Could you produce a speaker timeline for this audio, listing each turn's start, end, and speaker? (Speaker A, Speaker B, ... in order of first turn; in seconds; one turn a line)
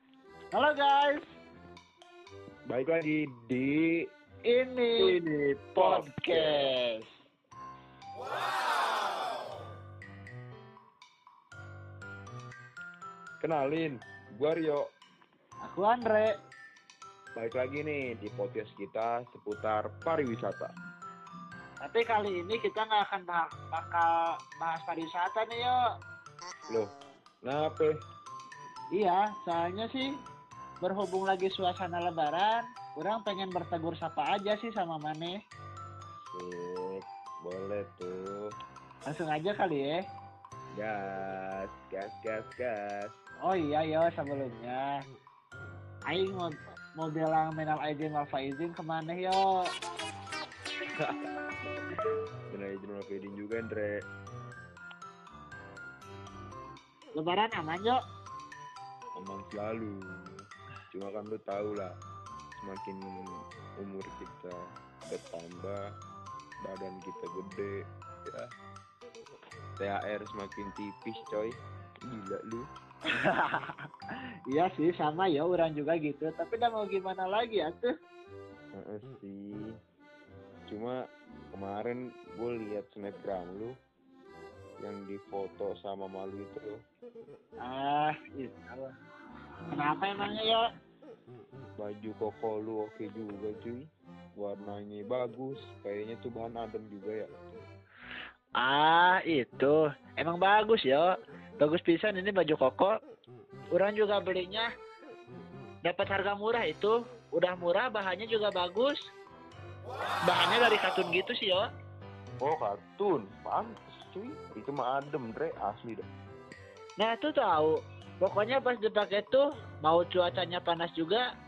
Speaker A: 0.5-1.2
Speaker B: 2.7-4.1
Speaker A: 4.5-7.0
Speaker B: 5.0-6.7
Speaker B: 13.4-14.9
Speaker A: 15.6-16.3
Speaker B: 17.3-20.7
Speaker A: 21.8-25.8
Speaker B: 26.7-27.9
Speaker A: 28.9-30.1
Speaker A: 30.8-35.3
Speaker B: 36.3-38.3
Speaker A: 39.0-40.0
Speaker B: 40.7-43.2
Speaker A: 43.4-45.0
Speaker A: 46.1-49.4
Speaker B: 51.0-51.3
Speaker B: 52.5-54.0
Speaker A: 57.1-58.0
Speaker B: 59.1-61.9
Speaker B: 62.5-65.8
Speaker B: 66.6-68.5
Speaker B: 69.8-71.5
Speaker B: 72.1-72.7
Speaker A: 73.1-73.9
Speaker A: 74.5-77.9
Speaker B: 78.7-79.8
Speaker B: 80.7-80.9
Speaker B: 81.5-83.8
Speaker B: 84.8-86.7
Speaker A: 87.6-88.9
Speaker A: 89.7-90.7
Speaker B: 91.8-97.3
Speaker A: 98.6-102.9
Speaker A: 103.7-104.7
Speaker A: 105.8-109.0
Speaker A: 110.3-111.6
Speaker B: 112.4-116.1
Speaker A: 117.0-121.2